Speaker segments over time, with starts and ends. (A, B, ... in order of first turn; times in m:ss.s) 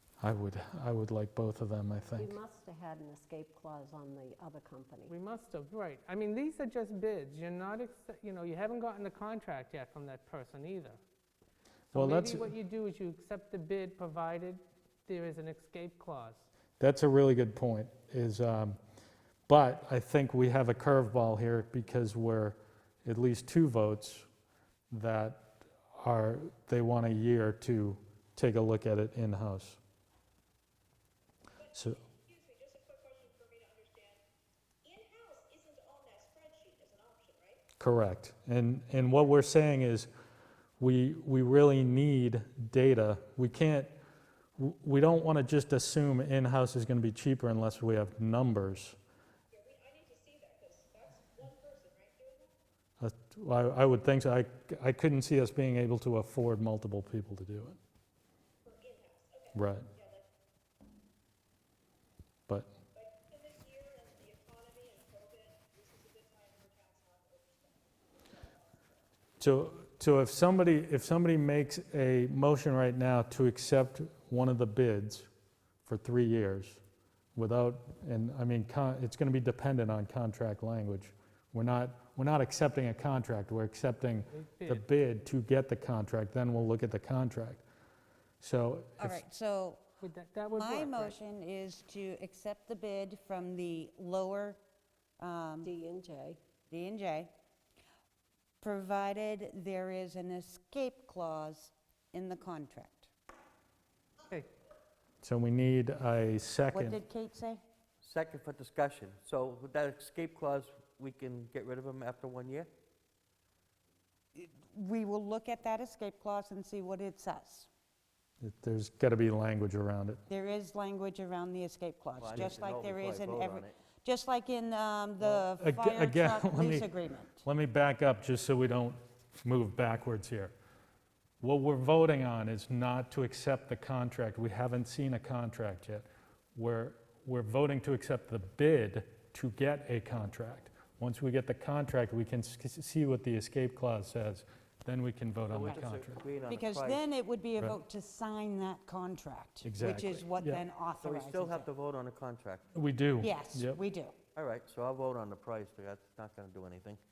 0:00.2-0:02.4 A
0:02.1-0:05.1 B
0:05.1-0:11.0 C
0:11.9-0:16.5 C
0:11.9-0:12.5 A
0:16.8-0:18.8 A
0:19.5-0:24.3 A
0:24.9-0:29.8 A
0:31.6-0:34.2 D
0:34.8-0:37.6 D
0:37.8-0:40.1 A
0:40.8-0:43.9 A
0:44.6-0:49.0 A
0:49.5-0:52.5 D
0:53.0-0:57.8 A
0:58.6-1:00.2 D
0:59.5-0:59.9 A
1:02.9-1:08.9 D
1:09.4-1:15.3 A
1:15.8-1:16.8 A
1:17.3-1:27.6 A
1:24.3-1:24.8 C
1:28.4-1:29.2 A
1:29.0-1:29.8 E
1:30.0-1:31.2 C
1:30.5-1:34.6 E
1:35.2-1:35.7 E
1:35.6-1:36.4 B
1:36.7-1:37.3 E
1:38.6-1:43.1 E
1:45.2-1:47.0 A
1:46.7-1:47.6 E
1:48.0-1:52.7 F
1:54.3-1:57.7 E
1:58.4-2:00.2 A
2:00.3-2:07.4 E
2:02.2-2:03.8 F
2:05.2-2:06.9 A
2:07.4-2:10.5 A
2:11.4-2:26.2 A
2:25.5-2:27.0 F
2:26.4-2:31.7 E
2:29.6-2:30.6 A
2:31.0-2:32.7 F
2:32.7-2:33.8 A
2:33.2-2:34.1 E
2:34.4-2:37.0 F